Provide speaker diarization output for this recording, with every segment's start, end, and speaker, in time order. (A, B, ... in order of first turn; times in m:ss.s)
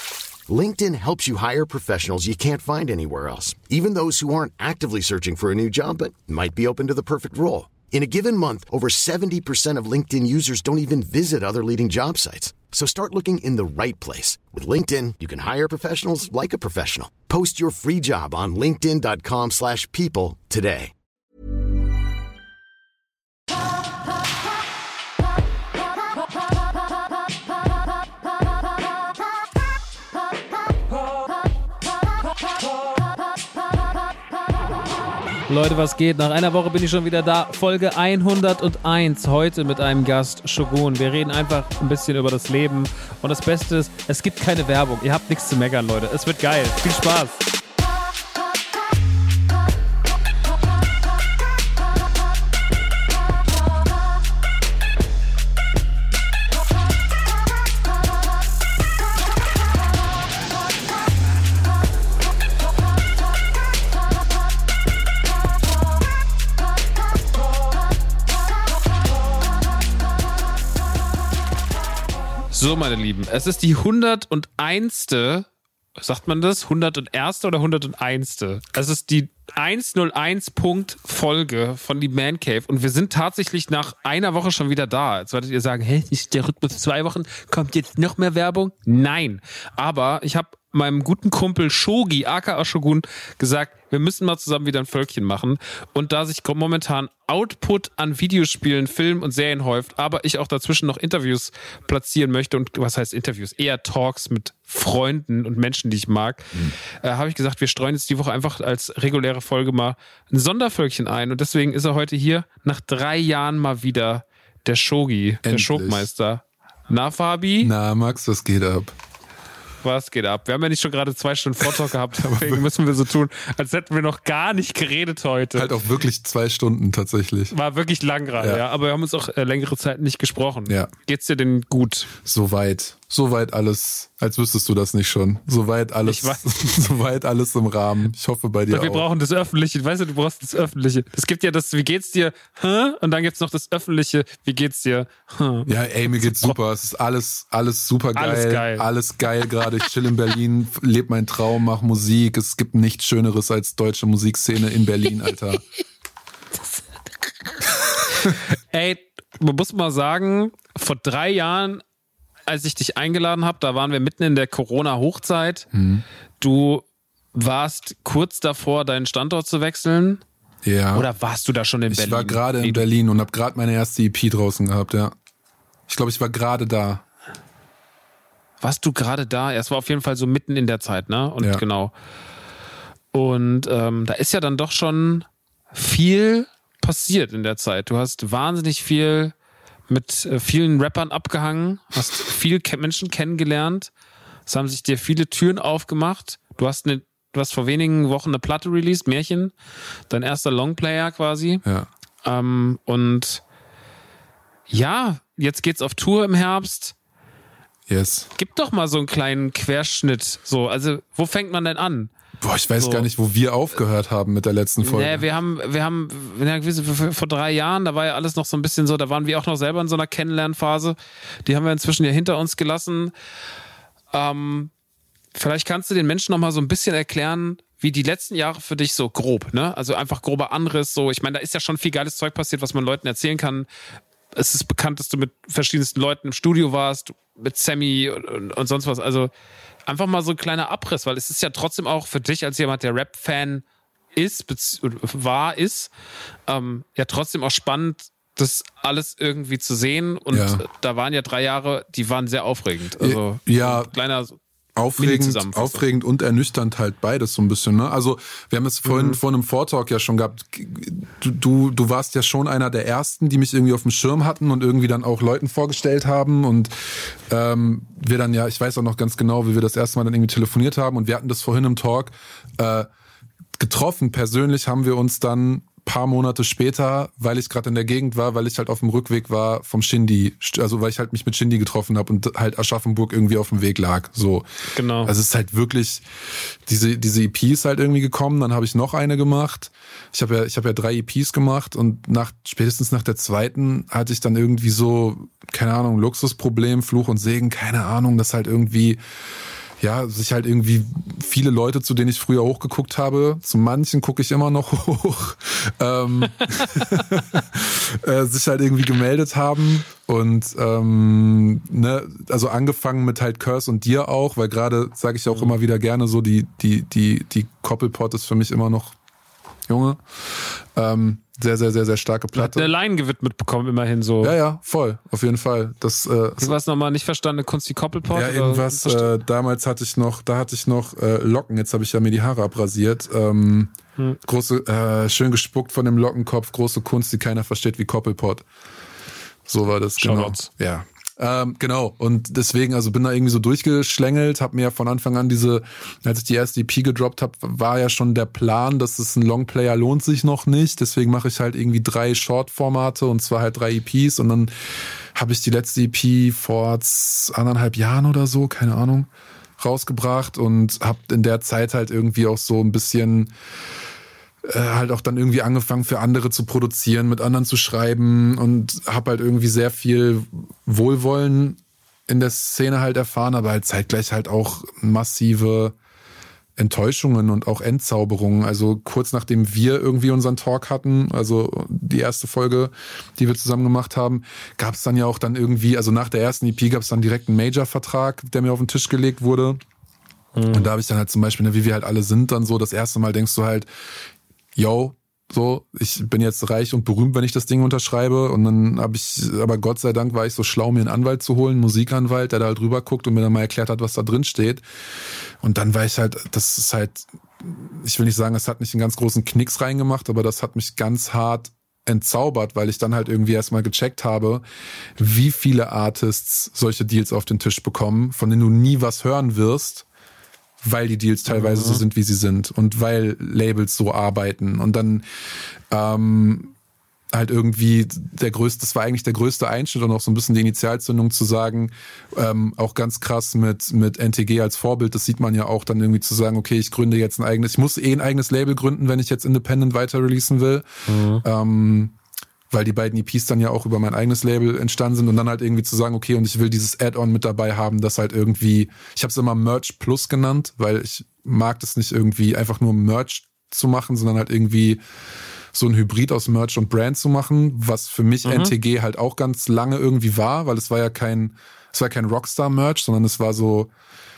0:00.5-0:20.9 A
0:35.5-0:47.4 B
1:12.5-1:15.5 B
1:16.0-1:57.7 B
1:55.4-1:56.1 C
1:57.6-1:59.0 C
1:59.8-2:05.7 B
2:02.2-2:02.7 C
2:05.6-2:07.5 C
2:07.5-2:12.1 B
2:12.2-2:19.1 C
2:16.0-2:16.4 B
2:18.7-2:26.6 B
2:25.7-2:35.6 C
2:28.2-2:28.9 B
2:37.9-2:41.8 B
2:42.5-2:45.7 B
2:45.7-2:46.0 C
2:46.4-2:50.2 B
2:50.6-2:51.1 C
2:50.9-2:52.8 B
2:51.9-2:55.2 C
2:55.9-2:57.0 C
2:58.6-3:01.9 B
3:03.1-3:09.3 B
3:09.9-3:13.9 B
3:14.5-3:19.5 B
3:20.1-3:21.6 B
3:22.2-3:23.4 B
3:24.7-3:27.0 B
3:27.9-3:28.3 C
3:28.4-3:32.1 B
3:32.4-3:35.2 C
3:32.8-3:33.1 B
3:34.8-3:43.1 B
3:44.1-3:44.7 B
3:45.3-3:53.7 B
3:54.4-3:59.3 B
3:59.9-4:03.6 B
4:04.2-4:05.9 B
4:06.5-4:14.4 B
4:10.3-4:10.6 C
4:13.0-4:13.9 C
4:14.8-4:32.9 C
4:15.0-4:15.8 B
4:18.9-4:19.2 B
4:33.6-4:44.5 C
4:44.7-4:45.1 B
4:45.0-4:46.0 C
4:46.7-4:59.0 C
4:59.8-5:19.0 C
5:19.7-5:22.7 C
5:22.3-5:24.4 B
5:24.2-5:26.6 C
5:26.4-5:29.2 B
5:28.1-5:38.4 C
5:39.5-5:54.5 C
5:40.0-5:40.5 B
5:55.2-6:03.3 C
6:04.4-6:15.8 C
6:16.6-6:29.6 C
6:30.4-6:30.7 B
6:30.5-6:33.7 C
6:34.6-6:44.6 C
6:45.4-6:54.4 C
6:55.0-6:59.9 C
7:00.6-7:05.0 C
7:01.3-7:01.8 B
7:05.7-7:06.5 C
7:07.1-7:20.7 C
7:20.9-7:21.2 B
7:21.2-7:22.0 C
7:22.5-7:34.8 C
7:35.5-7:43.7 C
7:38.2-7:38.5 B